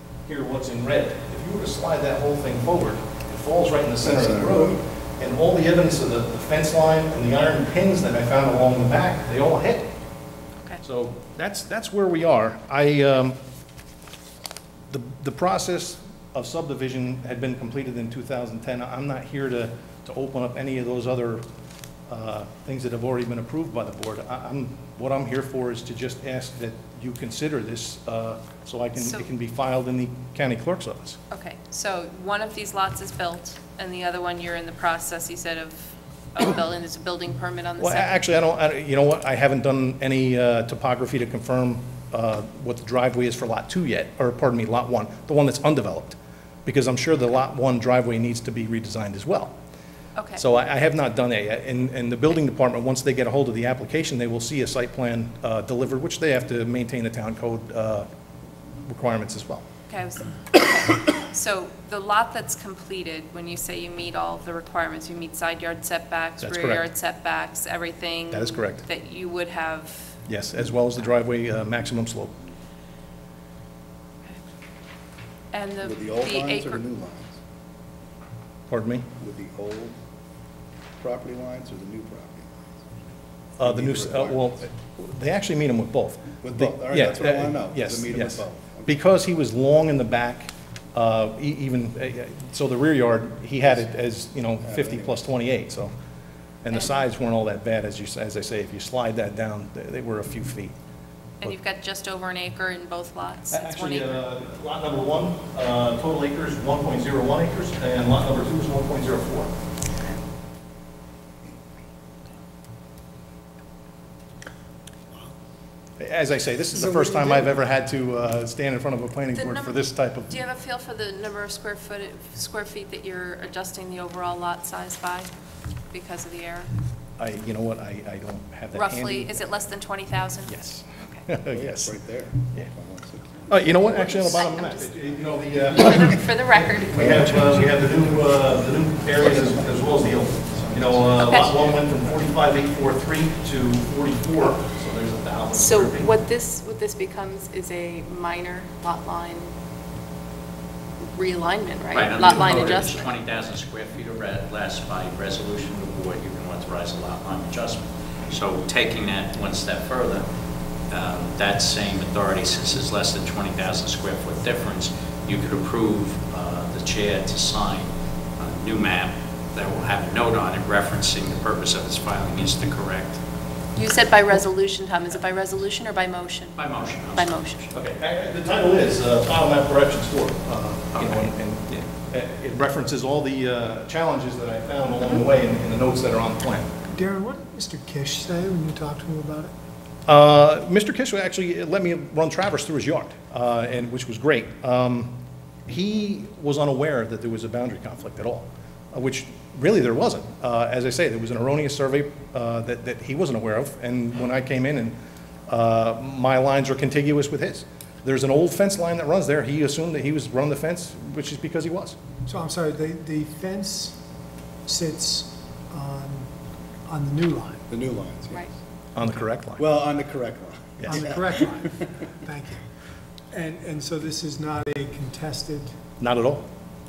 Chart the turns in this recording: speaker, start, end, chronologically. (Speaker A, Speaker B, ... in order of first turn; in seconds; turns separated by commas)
Speaker A: 0.3-9.9, Speaker B: 4.0-4.8, Speaker A: 10.8-13.4, Speaker A: 14.9-21.4, Speaker A: 22.1-31.2, Speaker C: 29.0-29.2, Speaker C: 31.3-38.3, Speaker A: 37.8-49.5, Speaker C: 50.1-50.4, Speaker A: 50.4-58.1, Speaker A: 58.9-59.6, Speaker C: 59.9-70.1, Speaker A: 66.4-66.8, Speaker A: 68.3-68.8, Speaker A: 70.3-72.4, Speaker C: 75.5-76.8, Speaker B: 75.8-77.4, Speaker A: 78.7-79.1, Speaker B: 79.2-80.0, Speaker B: 81.0-82.5, Speaker A: 83.6-95.9, Speaker B: 83.6-84.7, Speaker B: 86.4-88.9, Speaker B: 94.6-95.2, Speaker A: 96.6-100.7, Speaker C: 96.7-97.0, Speaker C: 101.4-104.2, Speaker A: 103.5-109.5, Speaker A: 116.0-120.3, Speaker D: 116.8-117.4, Speaker C: 119.3-125.3, Speaker C: 125.9-126.7, Speaker A: 127.2-129.6, Speaker C: 128.7-131.2, Speaker A: 130.5-131.9, Speaker B: 131.5-133.7, Speaker A: 133.5-146.1, Speaker C: 133.9-137.6, Speaker B: 137.0-137.3, Speaker B: 139.2-141.2, Speaker C: 141.2-141.5, Speaker C: 145.5-149.5, Speaker C: 151.1-153.1, Speaker E: 151.9-160.3, Speaker E: 160.9-173.2, Speaker C: 173.8-176.6, Speaker E: 176.6-178.0, Speaker C: 177.1-177.7, Speaker A: 177.9-186.7, Speaker E: 180.9-181.3, Speaker D: 186.9-189.5, Speaker A: 190.1-195.1, Speaker A: 195.7-205.0, Speaker A: 205.5-212.0, Speaker D: 212.2-214.0, Speaker D: 214.7-216.3, Speaker D: 216.8-217.6, Speaker B: 217.7-218.4, Speaker A: 218.9-219.6, Speaker B: 219.6-221.3, Speaker D: 220.9-222.6, Speaker D: 223.3-225.8, Speaker A: 226.0-226.5